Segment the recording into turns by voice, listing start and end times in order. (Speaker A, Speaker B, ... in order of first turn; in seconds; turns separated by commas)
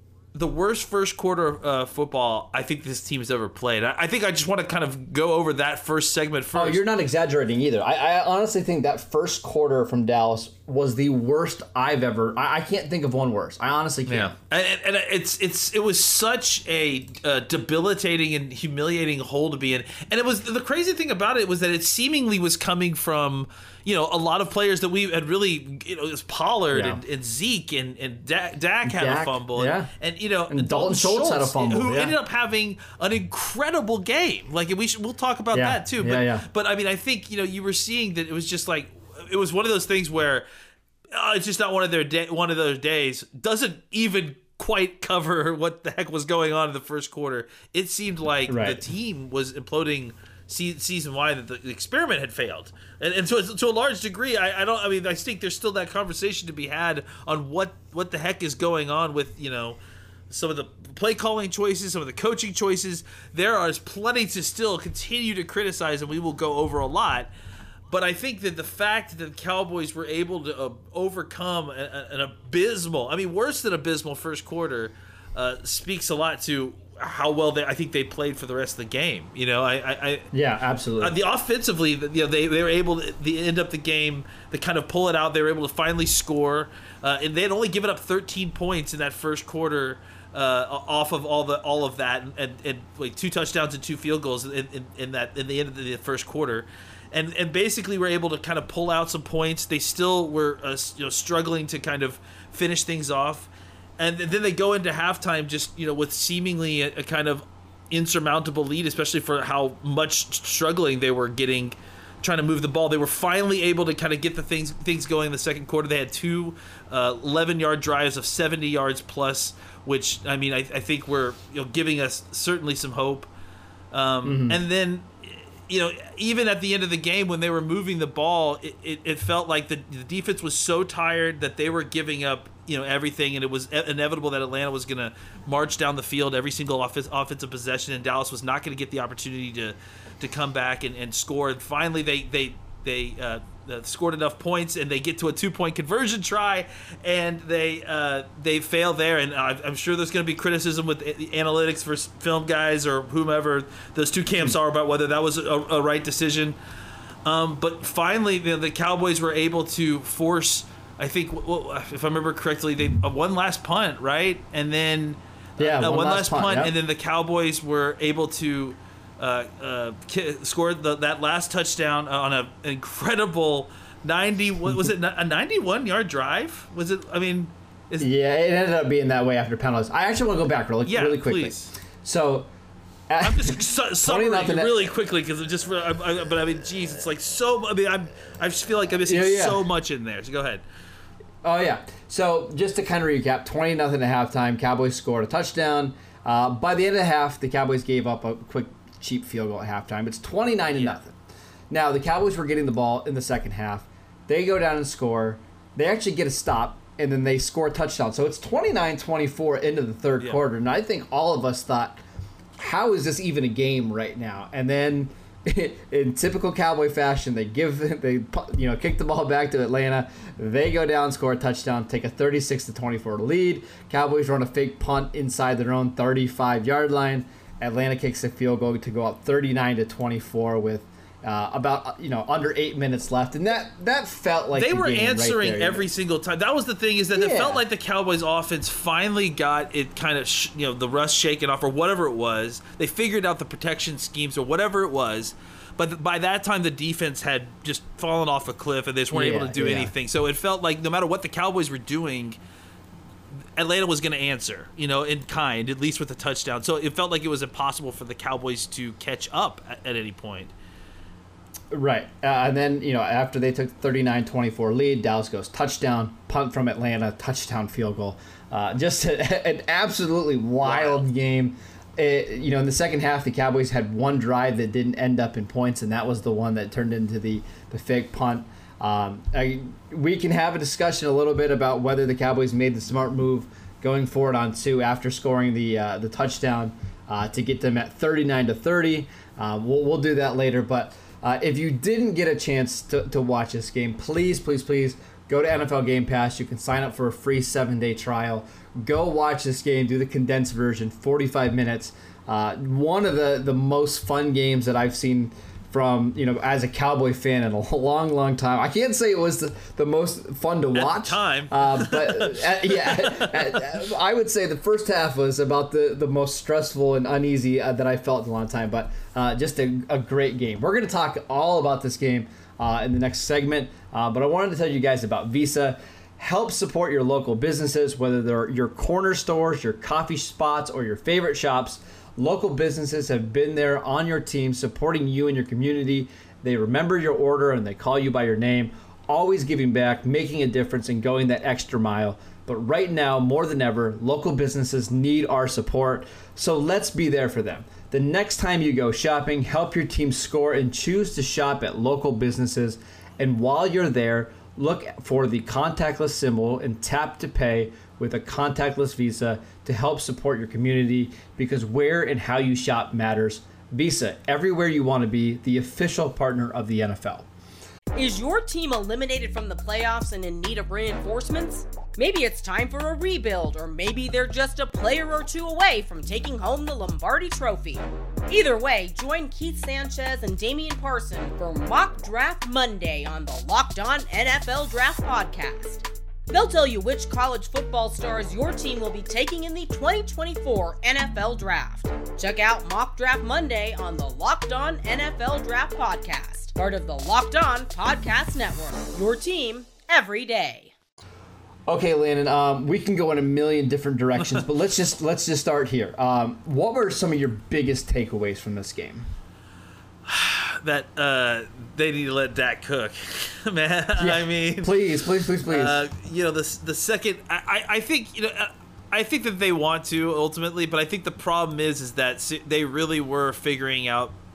Speaker A: 0.3-6.8, Speaker B: 6.5-14.3, Speaker A: 14.1-40.5, Speaker B: 26.7-27.0, Speaker B: 28.9-29.9, Speaker B: 30.5-32.1, Speaker B: 35.5-36.5, Speaker A: 41.1-67.3, Speaker B: 48.5-48.8, Speaker A: 67.9-80.3, Speaker B: 80.3-81.2, Speaker A: 81.0-123.3, Speaker A: 123.9-156.6, Speaker B: 124.2-124.6, Speaker A: 157.2-178.1, Speaker B: 165.6-166.8, Speaker B: 178.0-182.5, Speaker A: 180.9-181.7, Speaker B: 183.1-184.9, Speaker A: 183.2-190.6, Speaker B: 189.1-189.6, Speaker B: 191.4-201.2, Speaker B: 201.7-212.0, Speaker B: 212.6-235.9, Speaker A: 234.6-252.4, Speaker B: 237.2-237.6, Speaker B: 249.1-249.9, Speaker A: 253.6-260.5, Speaker B: 261.7-367.3, Speaker A: 270.6-271.0, Speaker A: 310.8-313.6, Speaker C: 368.0-400.7, Speaker B: 401.7-409.1, Speaker A: 410.1-414.8, Speaker B: 414.0-415.8, Speaker A: 415.4-424.1